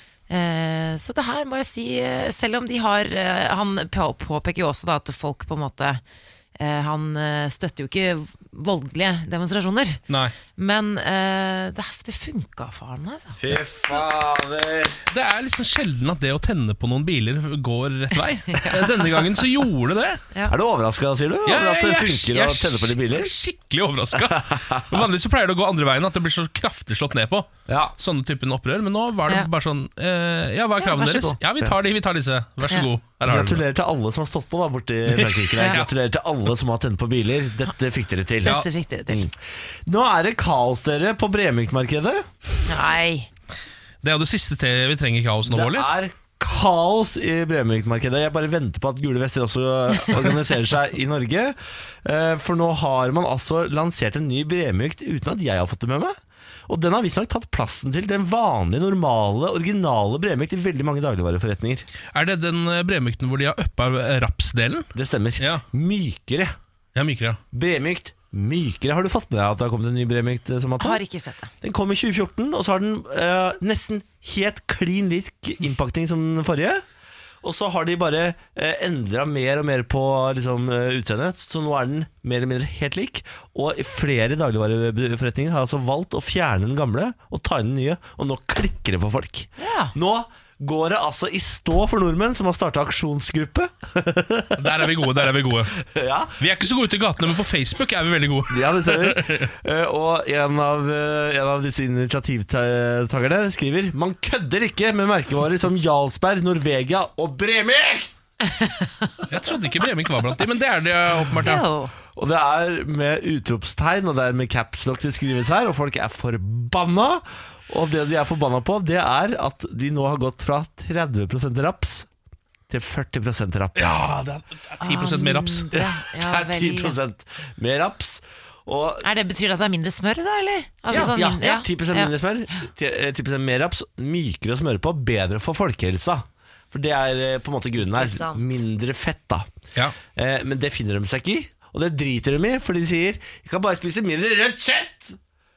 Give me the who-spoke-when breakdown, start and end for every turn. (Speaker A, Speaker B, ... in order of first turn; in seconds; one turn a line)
Speaker A: 0.3-6.0
Speaker A: 6.6-10.0
Speaker B: 10.1-10.3
Speaker A: 10.6-13.4
Speaker C: 13.4-15.0
Speaker B: 15.1-20.2
Speaker A: 18.5-18.9
Speaker C: 20.5-23.3
Speaker B: 21.4-33.6
Speaker C: 24.4-25.0
Speaker C: 27.7-27.9
Speaker A: 30.8-31.4
Speaker C: 33.3-42.2
Speaker B: 35.1-35.9
Speaker A: 38.4-39.3
Speaker A: 42.7-43.3
Speaker B: 44.0-45.9
Speaker C: 45.5-56.2
Speaker C: 56.7-61.9
Speaker B: 62.1-64.9
Speaker C: 64.9-66.5
Speaker B: 65.4-65.6
Speaker B: 66.9-67.4
Speaker C: 67.5-71.0
Speaker A: 70.8-71.5
Speaker C: 71.6-76.8
Speaker C: 77.4-94.8
Speaker A: 89.6-89.9
Speaker B: 94.6-95.8
Speaker C: 95.8-96.4
Speaker B: 96.4-99.5
Speaker C: 98.5-108.1
Speaker A: 108.4-109.2
Speaker B: 109.3-111.6
Speaker A: 111.4-111.9
Speaker C: 112.2-122.1
Speaker C: 122.7-124.1
Speaker B: 123.8-125.7
Speaker A: 124.8-127.0
Speaker C: 125.7-129.1
Speaker A: 129.0-132.1
Speaker C: 130.9-139.5
Speaker A: 137.8-138.6
Speaker C: 140.1-145.2